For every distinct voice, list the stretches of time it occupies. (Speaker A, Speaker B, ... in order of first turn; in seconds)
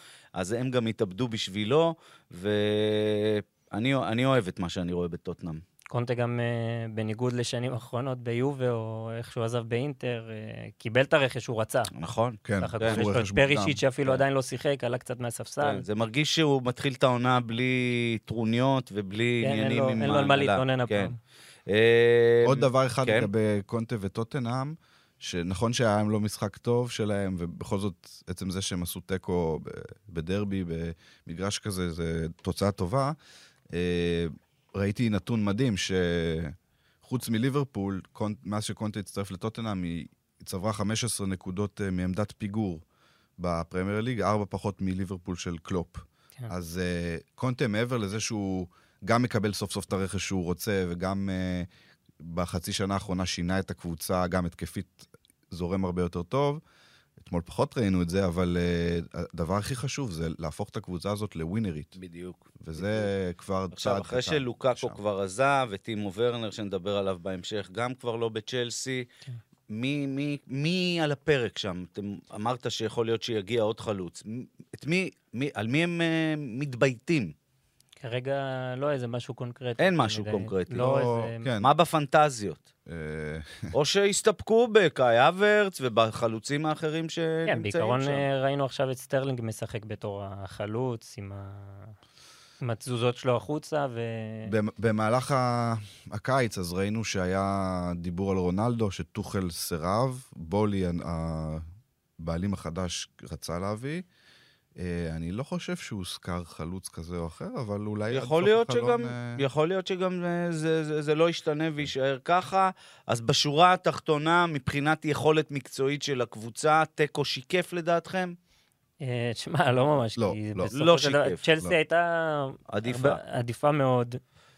Speaker A: 0.3-5.6, 11.9-13.0, 15.6-21.1, 21.7-23.3, 62.0-63.1, 63.7-69.0, 69.7-77.3, 79.8-81.0, 81.6-82.6, 83.7-88.2, 108.1-118.3, 120.7-121.4, 122.7-123.2
Speaker B: 5.9-11.9, 12.6-15.8, 19.4-21.2, 78.0-81.5, 87.5-91.9, 92.6-94.5, 119.0-124.2
Speaker C: 12.4-13.8, 22.4-33.2, 33.7-42.8, 43.4-51.7, 52.2-56.6, 57.2-62.0, 62.6-65.0, 80.8-81.7, 82.8-83.7, 94.5-101.6, 102.2-104.0, 104.8-109.4, 120.2-120.7